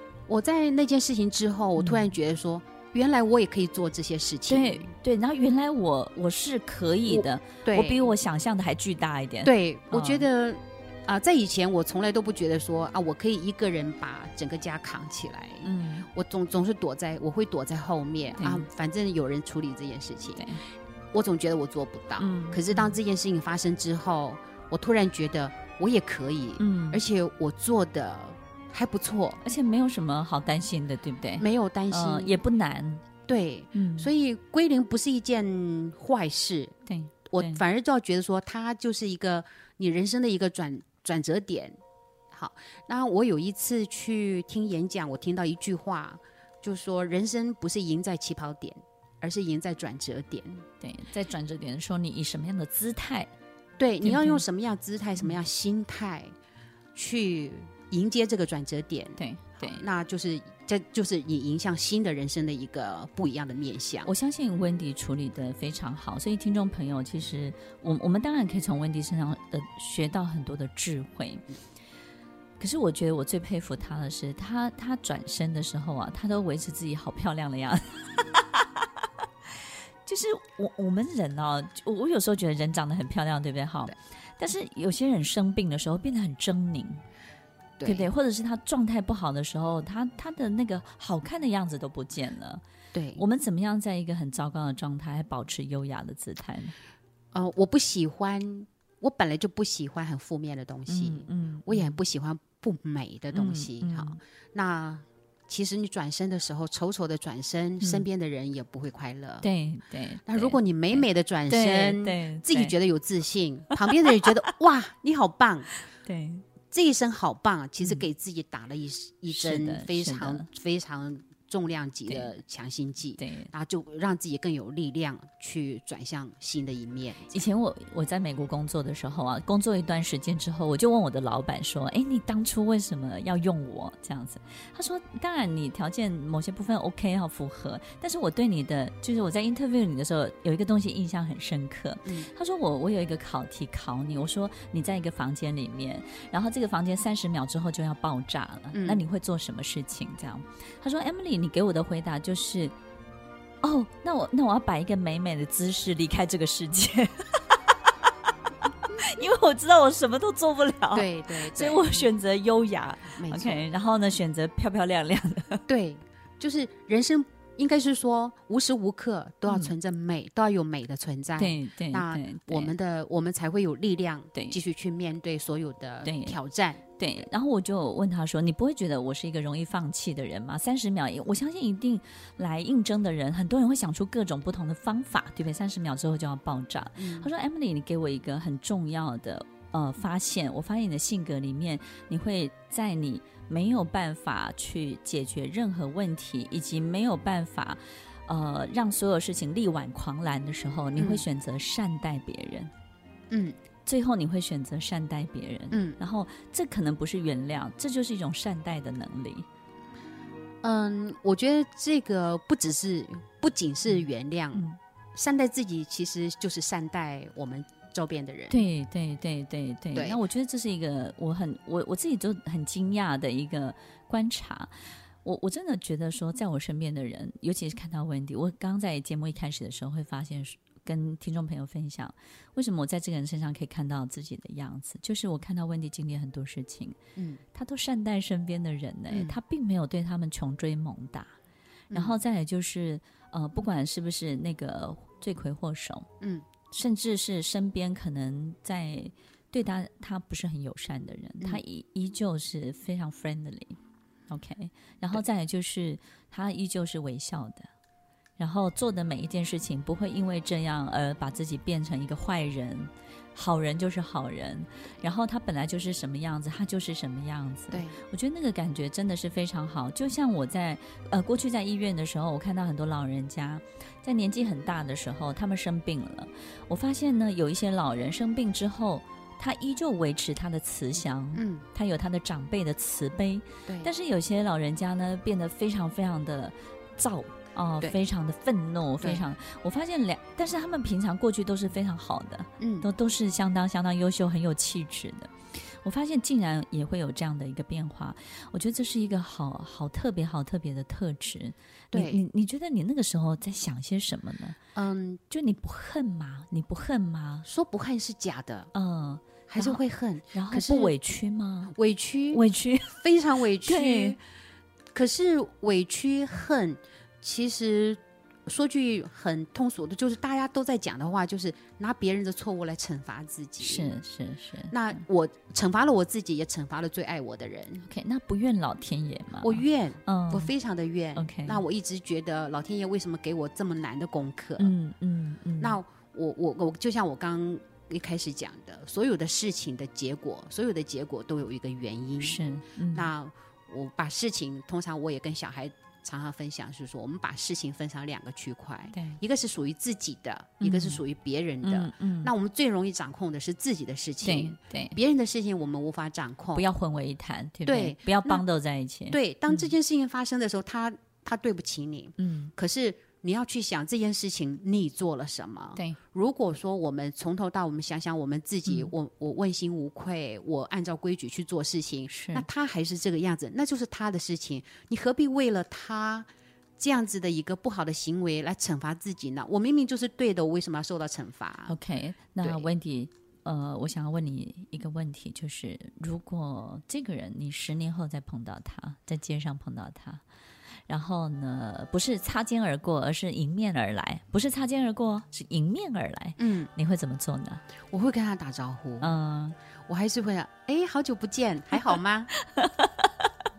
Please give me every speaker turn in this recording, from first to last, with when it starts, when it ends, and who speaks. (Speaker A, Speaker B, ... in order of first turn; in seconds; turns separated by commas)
Speaker A: 0.3-4.9, Speaker B: 1.8-2.1, Speaker B: 4.5-10.3, Speaker A: 7.1-8.1, Speaker A: 9.4-20.5, Speaker B: 15.6-16.1, Speaker B: 18.4-18.7, Speaker A: 21.1-29.4, Speaker B: 22.2-23.0, Speaker B: 26.6-27.0, Speaker B: 29.4-33.0, Speaker A: 31.4-32.4, Speaker A: 33.3-36.7, Speaker B: 33.7-34.1, Speaker B: 36.9-37.6, Speaker A: 37.3-41.8, Speaker A: 42.3-50.6, Speaker B: 50.8-53.3, Speaker A: 53.8-56.3, Speaker B: 54.0-54.4, Speaker A: 57.0-64.1, Speaker B: 59.2-59.8, Speaker B: 64.0-71.5, Speaker B: 72.6-78.9, Speaker B: 80.1-87.0, Speaker A: 87.8-88.1, Speaker B: 87.8-92.6, Speaker A: 92.9-93.2, Speaker B: 93.2-96.7, Speaker A: 97.3-109.5, Speaker B: 100.9-102.0, Speaker B: 103.3-104.2, Speaker B: 109.4-112.8, Speaker A: 110.3-115.7, Speaker B: 116.0-116.4, Speaker A: 116.7-127.5, Speaker B: 119.3-120.5, Speaker B: 123.2-123.5, Speaker B: 127.3-152.7, Speaker A: 142.1-142.3, Speaker A: 148.7-149.0, Speaker B: 153.6-157.4, Speaker B: 158.9-165.7, Speaker A: 160.9-162.1, Speaker A: 163.2-163.7, Speaker A: 165.7-176.8, Speaker B: 171.4-172.7, Speaker B: 176.0-176.4, Speaker B: 177.0-202.7, Speaker A: 187.0-187.3, Speaker A: 201.0-201.2, Speaker A: 203.3-203.6, Speaker B: 203.9-209.5, Speaker A: 205.7-206.0, Speaker A: 210.6-218.6, Speaker B: 214.5-214.8, Speaker B: 218.5-224.7, Speaker A: 219.9-220.2, Speaker B: 225.2-237.0, Speaker A: 237.2-237.4, Speaker B: 237.5-241.3, Speaker A: 239.1-239.4, Speaker A: 241.9-242.2, Speaker B: 241.9-246.1, Speaker A: 246.2-246.5, Speaker B: 246.7-253.8, Speaker B: 254.3-257.7, Speaker B: 258.4-304.6, Speaker A: 267.7-268.0, Speaker A: 281.3-281.7, Speaker A: 283.7-283.9, Speaker A: 289.0-289.3, Speaker A: 292.6-292.9, Speaker A: 301.9-302.2, Speaker A: 304.8-305.2, Speaker B: 305.3-307.5, Speaker A: 307.5-308.7, Speaker B: 308.7-309.8, Speaker A: 309.5-310.9, Speaker B: 310.3-311.7, Speaker A: 311.7-314.2, Speaker B: 312.3-313.0, Speaker B: 313.6-314.2, Speaker A: 314.9-323.9, Speaker B: 323.6-325.0, Speaker A: 324.7-327.9, Speaker B: 327.9-330.5, Speaker A: 329.4-334.7, Speaker B: 331.1-331.6, Speaker B: 334.6-335.8, Speaker A: 335.6-342.4, Speaker B: 342.2-343.1, Speaker A: 342.9-356.6, Speaker B: 348.9-349.2, Speaker B: 350.6-351.0, Speaker B: 351.6-352.3, Speaker B: 354.2-355.0, Speaker B: 356.6-359.7, Speaker A: 357.7-358.4, Speaker A: 359.1-381.8, Speaker B: 362.2-362.5, Speaker B: 368.7-368.9, Speaker B: 372.1-372.5, Speaker B: 381.7-390.2, Speaker A: 382.4-382.7, Speaker B: 390.9-397.6, Speaker A: 396.4-396.7, Speaker A: 397.9-399.1, Speaker B: 399.0-399.6, Speaker A: 399.9-402.3, Speaker B: 402.6-403.1